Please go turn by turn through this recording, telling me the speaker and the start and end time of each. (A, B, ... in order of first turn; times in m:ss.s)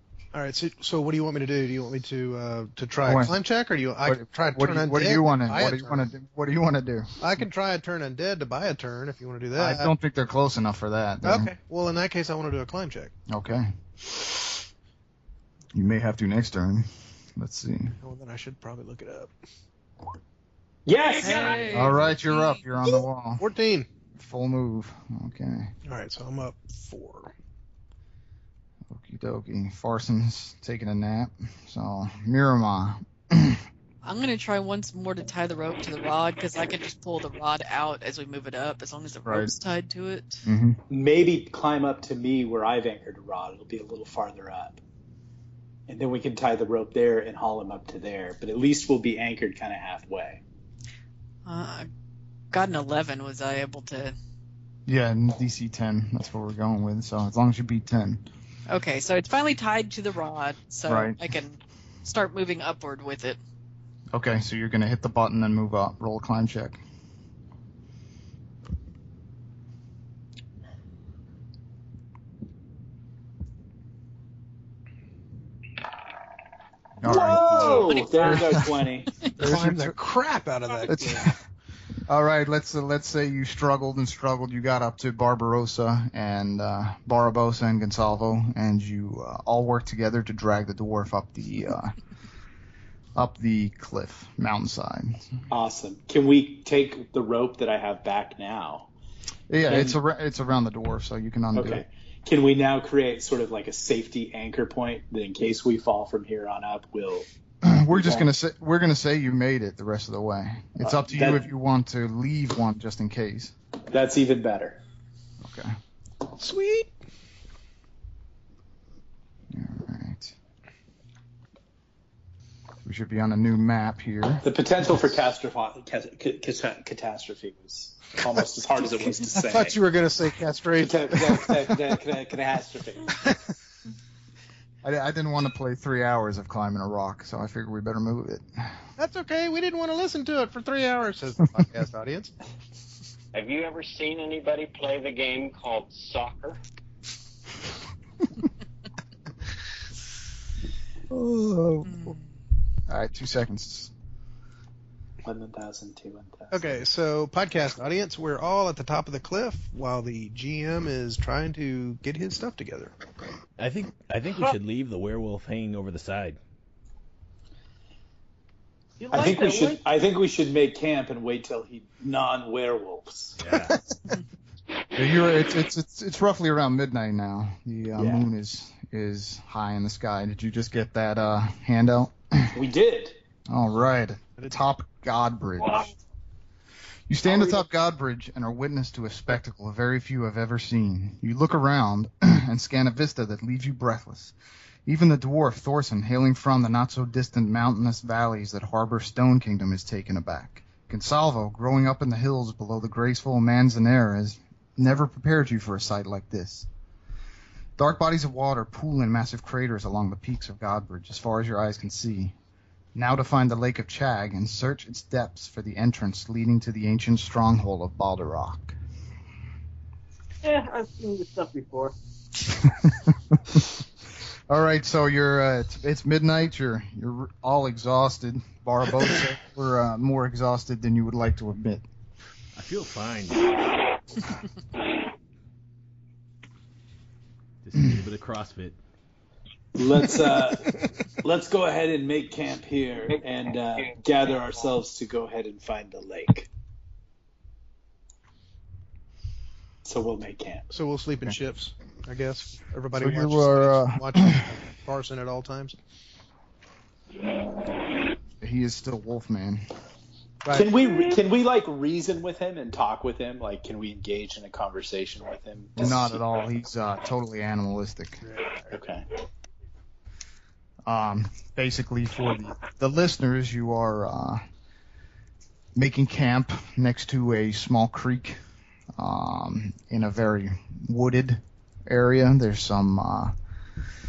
0:00.3-0:06.0 A
0:03.0-0:03.4 B
0:04.0-0:07.1 B
0:07.2-0:09.9 A
0:09.6-0:11.5 B
0:11.2-0:13.1 A
0:13.3-0:14.6 B
0:15.7-0:18.0 B
0:18.0-0:19.3 A
0:20.9-0:22.0 C
0:21.2-0:22.6 D
0:21.2-0:21.7 E
0:21.7-0:23.5 B
0:22.9-0:23.9 A
0:24.2-0:25.7 B
0:25.8-0:27.3 A
0:28.9-0:33.6 B
0:34.0-0:40.5 D
0:39.3-0:39.5 B
0:40.4-0:40.8 B
0:40.9-0:44.8 C
0:45.9-0:50.4 C
0:51.5-0:51.9 D
0:52.5-0:54.2 D
0:54.9-0:58.2 B
0:58.7-1:03.4 D
1:00.9-1:01.2 B
1:04.1-1:06.8 B
1:17.0-1:18.7 B
1:17.0-1:19.2 C
1:17.5-1:18.4 E
1:19.4-1:21.3 A
1:19.4-1:20.0 B
1:20.9-1:21.4 B
1:22.1-1:32.0 B
1:33.2-1:35.3 B
1:35.5-1:38.9 C
1:39.5-1:41.8 B
1:39.7-1:40.0 C
1:41.6-1:47.3 C
1:47.6-1:53.5 B
1:47.9-1:48.3 C
1:50.8-1:51.5 C
1:53.9-1:54.8 C
1:55.4-1:55.8 B
1:56.4-1:56.9 A
1:59.5-2:00.3 B
2:02.8-2:04.5 B
2:04.4-2:09.8 C
2:09.4-2:11.7 A
2:10.8-2:13.2 C
2:14.8-2:18.8 B
2:19.0-2:22.3 A
2:23.3-2:26.6 F
2:31.1-2:32.2 B
2:31.8-2:32.2 D
2:32.9-2:33.9 B
2:35.2-2:36.8 C
2:36.5-2:42.9 A
2:43.6-2:46.4 G
2:49.0-2:49.8 E
2:49.1-2:53.4 C
2:53.4-2:53.8 G
2:55.0-3:02.6 B
2:58.0-2:58.3 C
3:02.5-3:03.2 C
3:03.5-3:05.9 B
3:07.1-3:14.4 B
3:14.9-3:26.7 B
3:27.8-3:32.4 B
3:33.0-3:38.8 B
3:40.4-3:41.9 E
3:42.5-3:43.8 B
3:44.5-3:51.8 B
3:52.6-3:54.2 G
3:57.6-3:58.8 G
3:59.8-4:06.5 C
4:09.8-4:10.7 C
4:10.7-4:15.8 A
4:13.0-4:14.5 B
4:18.4-4:19.7 B
4:20.5-4:26.2 C
4:25.8-4:28.2 B
4:28.2-4:28.7 A
4:28.7-4:29.1 C
4:30.9-4:34.4 B
4:35.8-4:38.4 B
4:39.0-4:43.4 B